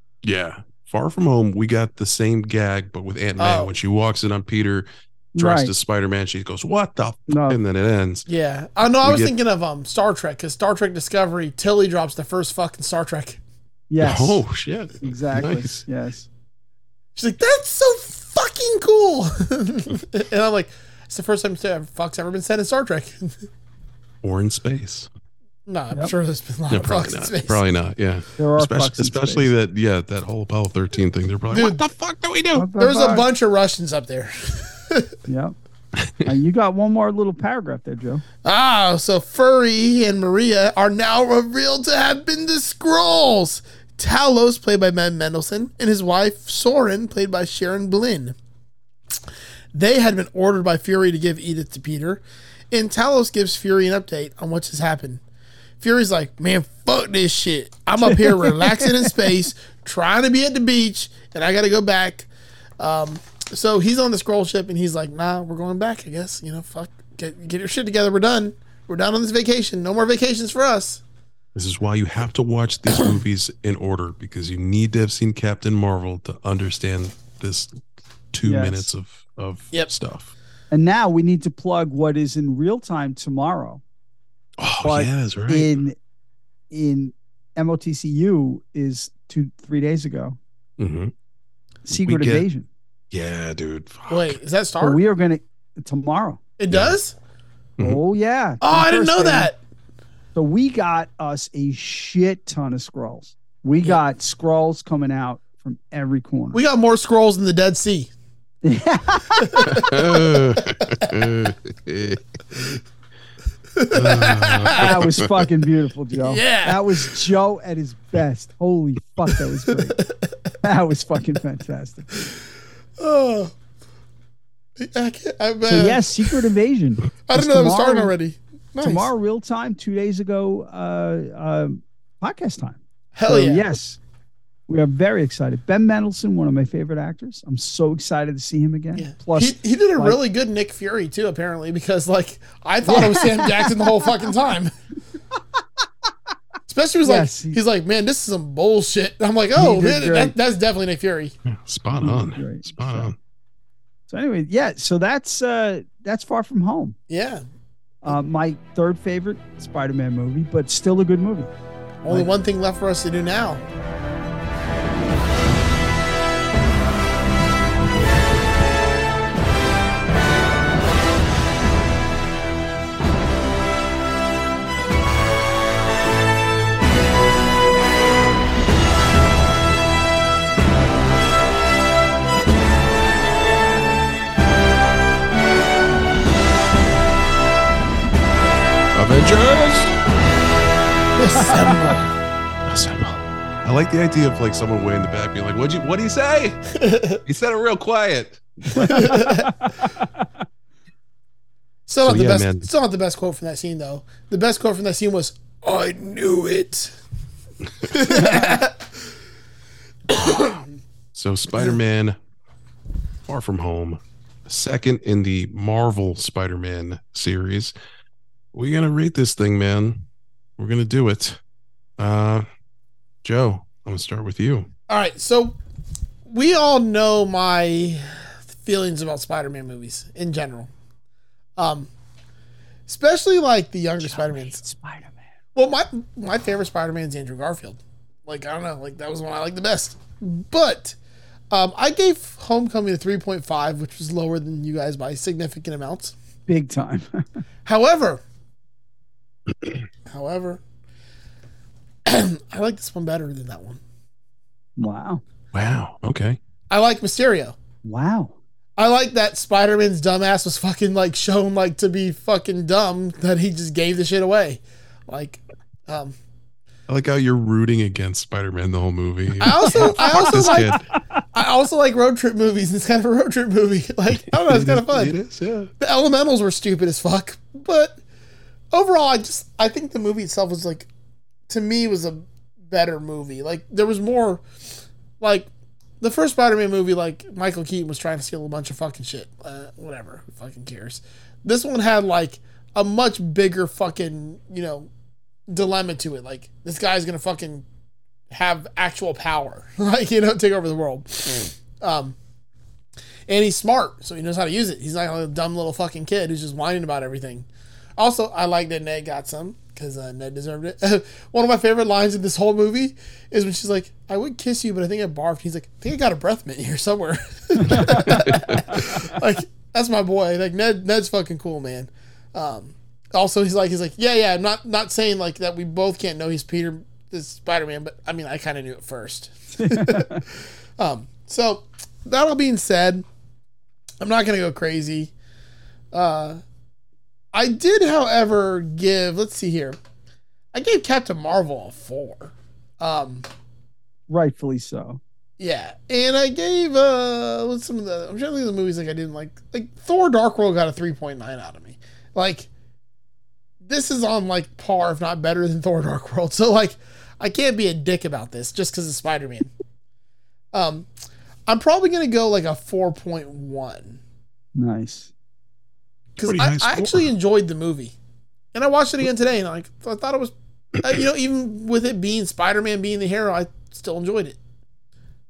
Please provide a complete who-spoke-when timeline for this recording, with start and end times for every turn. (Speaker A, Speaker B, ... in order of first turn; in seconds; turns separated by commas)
Speaker A: 0.2-8.2, Speaker B: 3.4-3.7, Speaker C: 5.3-5.7, Speaker C: 7.3-7.6, Speaker B: 8.3-13.4, Speaker A: 9.0-9.3, Speaker C: 13.9-14.4, Speaker A: 14.0-15.8, Speaker C: 15.0-16.3, Speaker B: 17.1-23.4, Speaker A: 24.2-25.1, Speaker B: 25.7-27.6, Speaker A: 26.7-32.7, Speaker C: 28.4-29.5, Speaker B: 31.5-31.8, Speaker C: 32.5-33.3, Speaker B: 32.8-35.1, Speaker C: 35.3-35.5, Speaker A: 36.0-36.3, Speaker C: 36.2-38.2, Speaker B: 38.4-48.3, Speaker B: 49.7-55.2, Speaker B: 55.8-62.3, Speaker C: 58.0-59.1, Speaker B: 62.8-71.0, Speaker A: 71.5-77.7, Speaker A: 78.3-80.3, Speaker C: 78.4-78.9, Speaker C: 80.7-83.8, Speaker A: 84.6-85.7, Speaker C: 84.8-86.0, Speaker C: 86.7-90.4, Speaker A: 90.8-91.1, Speaker C: 91.8-92.7, Speaker A: 91.9-92.5, Speaker A: 93.1-94.4, Speaker B: 94.1-95.0, Speaker C: 94.8-96.4, Speaker B: 96.6-97.1, Speaker A: 96.7-97.0, Speaker C: 97.8-99.5, Speaker B: 98.6-99.6, Speaker C: 100.3-106.6, Speaker B: 106.5-108.1, Speaker C: 108.6-109.8, Speaker B: 109.4-109.9, Speaker A: 109.7-112.8, Speaker B: 110.6-111.1, Speaker B: 113.8-115.0, Speaker A: 113.9-115.3, Speaker C: 114.7-120.0, Speaker B: 116.2-117.1, Speaker B: 119.9-120.1, Speaker C: 120.6-122.3, Speaker B: 123.0-123.5, Speaker B: 124.8-126.3, Speaker C: 125.7-128.1, Speaker B: 127.3-129.1, Speaker C: 128.8-134.0, Speaker B: 133.1-133.6, Speaker C: 134.7-140.2, Speaker B: 138.9-144.7, Speaker C: 142.8-144.3, Speaker B: 146.7-151.3, Speaker C: 147.0-147.6, Speaker C: 149.5-150.3, Speaker A: 151.4-153.2, Speaker C: 152.0-153.1, Speaker C: 154.1-156.9, Speaker B: 157.1-157.4, Speaker C: 158.0-161.5, Speaker B: 162.0-163.6, Speaker A: 188.9-190.0, Speaker B: 191.2-192.1, Speaker C: 191.4-192.0, Speaker A: 192.7-196.7, Speaker B: 196.7-197.2, Speaker A: 197.2-199.1, Speaker C: 198.7-200.2, Speaker B: 198.8-199.5, Speaker B: 201.9-206.9, Speaker A: 202.0-202.7, Speaker B: 207.8-208.8, Speaker C: 208.0-208.6, Speaker B: 210.1-210.6, Speaker A: 211.1-212.2, Speaker A: 213.2-217.7, Speaker A: 218.5-220.0, Speaker A: 220.6-221.4, Speaker A: 222.0-222.4, Speaker A: 223.2-224.7, Speaker B: 224.9-225.6, Speaker B: 226.3-230.7, Speaker B: 231.6-231.9, Speaker B: 232.9-234.6, Speaker C: 234.0-235.2, Speaker B: 235.5-240.9, Speaker B: 241.5-246.1, Speaker C: 246.5-247.4, Speaker B: 247.7-248.2, Speaker B: 250.1-250.6, Speaker B: 252.1-253.8, Speaker C: 254.8-255.2, Speaker A: 255.5-256.4, Speaker B: 256.7-257.6, Speaker C: 257.8-258.4, Speaker B: 258.8-266.1, Speaker A: 266.9-270.9, Speaker B: 269.4-270.8, Speaker C: 269.6-271.2, Speaker B: 271.3-275.1, Speaker A: 274.3-275.7, Speaker B: 275.8-278.0, Speaker B: 278.7-280.9, Speaker B: 281.5-284.4, Speaker B: 285.2-285.5, Speaker B: 286.0-294.9, Speaker B: 295.5-297.6, Speaker B: 298.3-302.1, Speaker B: 303.3-307.4, Speaker B: 308.0-333.0, Speaker C: 317.6-318.2, Speaker A: 318.1-318.8, Speaker C: 329.6-330.2, Speaker B: 334.0-335.1, Speaker B: 335.9-336.4, Speaker B: 337.3-339.8, Speaker B: 340.5-343.2, Speaker C: 344.1-345.0, Speaker B: 345.4-352.5, Speaker B: 353.6-359.5, Speaker B: 360.5-360.9, Speaker B: 361.5-364.0, Speaker C: 364.6-365.1, Speaker B: 366.2-367.9, Speaker A: 366.2-367.1, Speaker B: 368.5-374.4